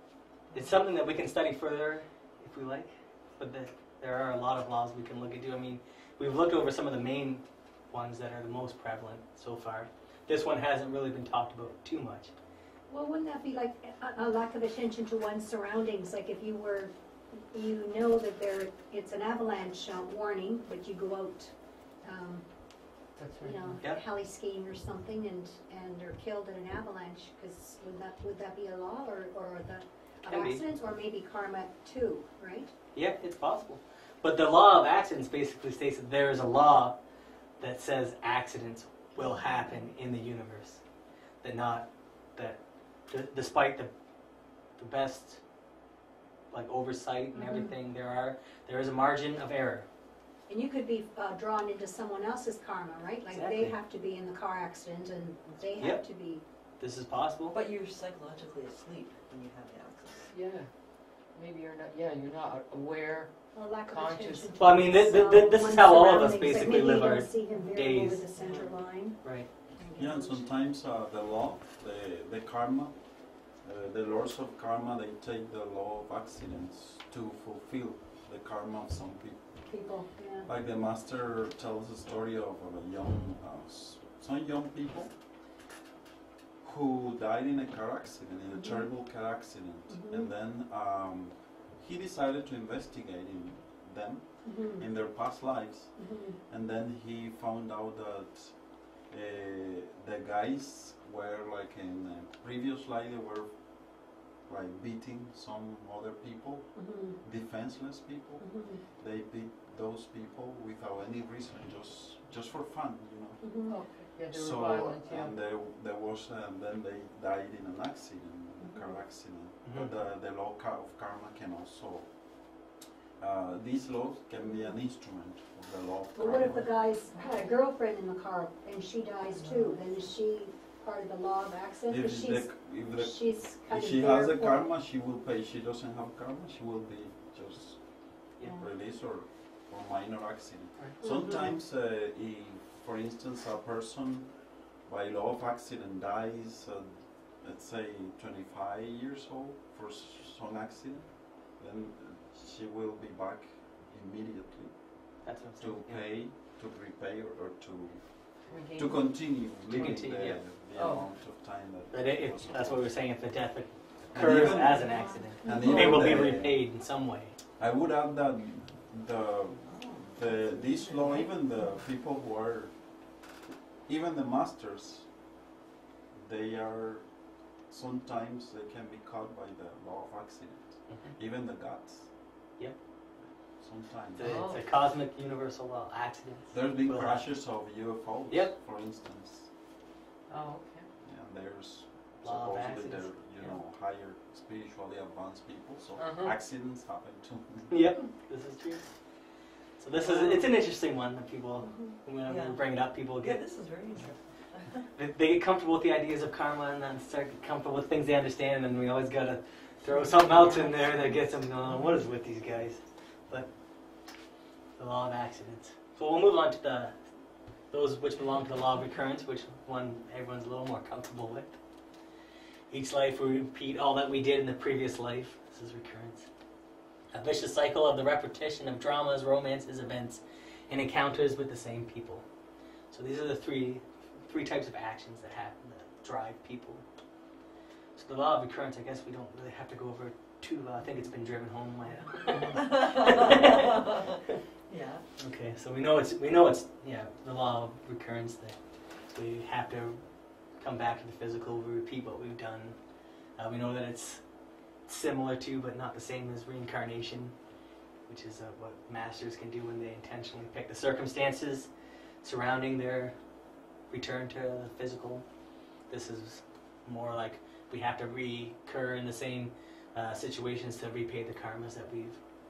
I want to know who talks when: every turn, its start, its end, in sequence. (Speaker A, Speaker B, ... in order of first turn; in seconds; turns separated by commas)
Speaker A: 0.5-0.8, Speaker B: 0.5-12.3, Speaker C: 12.9-32.7, Speaker D: 23.1-23.8, Speaker B: 30.2-30.6, Speaker B: 32.9-37.0, Speaker B: 37.6-40.8, Speaker C: 39.2-39.9, Speaker B: 41.4-43.9, Speaker B: 44.7-45.4, Speaker B: 46.5-49.9, Speaker C: 47.3-47.7, Speaker C: 50.5-56.4, Speaker B: 53.3-53.8, Speaker B: 56.8-57.5, Speaker A: 57.5-60.3, Speaker D: 60.3-60.7, Speaker D: 61.2-64.7, Speaker C: 63.5-70.5, Speaker B: 64.6-68.2, Speaker A: 68.3-68.7, Speaker B: 69.2-69.5, Speaker E: 70.0-85.1, Speaker C: 79.7-80.5, Speaker E: 86.6-113.4, Speaker C: 88.5-88.9, Speaker C: 89.9-90.3, Speaker C: 94.4-94.8, Speaker C: 96.0-96.4, Speaker C: 106.8-107.2, Speaker C: 108.4-108.8, Speaker C: 113.4-113.7, Speaker D: 113.7-115.3, Speaker E: 114.3-126.8, Speaker C: 118.6-119.0, Speaker B: 119.6-119.9, Speaker C: 124.4-124.7, Speaker C: 126.1-134.7, Speaker D: 129.2-129.8, Speaker E: 131.9-163.1, Speaker C: 141.0-141.6, Speaker B: 155.2-156.1, Speaker D: 158.5-159.2, Speaker B: 159.7-160.4, Speaker D: 160.7-161.0, Speaker B: 161.9-167.3, Speaker E: 164.1-166.7, Speaker C: 164.7-166.3, Speaker E: 167.6-173.3, Speaker A: 169.7-171.3, Speaker E: 173.8-175.1, Speaker E: 176.1-182.1, Speaker B: 180.9-181.1, Speaker E: 183.2-184.4, Speaker B: 184.2-187.3, Speaker D: 184.2-184.6, Speaker E: 186.5-189.5, Speaker D: 190.3-190.9, Speaker E: 191.0-197.8, Speaker B: 192.2-193.5, Speaker D: 196.0-196.3, Speaker B: 197.7-199.1, Speaker B: 199.8-203.4, Speaker A: 200.0-200.4, Speaker C: 201.6-202.0, Speaker A: 202.2-204.9, Speaker B: 204.9-213.5, Speaker D: 210.1-211.1, Speaker B: 214.8-216.9, Speaker B: 217.7-221.6, Speaker B: 222.7-226.3, Speaker B: 227.1-232.2, Speaker B: 232.9-236.8, Speaker B: 237.9-243.7, Speaker A: 241.8-244.2, Speaker A: 244.7-245.0, Speaker B: 245.2-252.8, Speaker B: 253.3-254.3, Speaker B: 254.8-257.4, Speaker B: 258.1-261.7, Speaker B: 262.2-263.1, Speaker B: 263.9-265.2, Speaker B: 265.9-272.2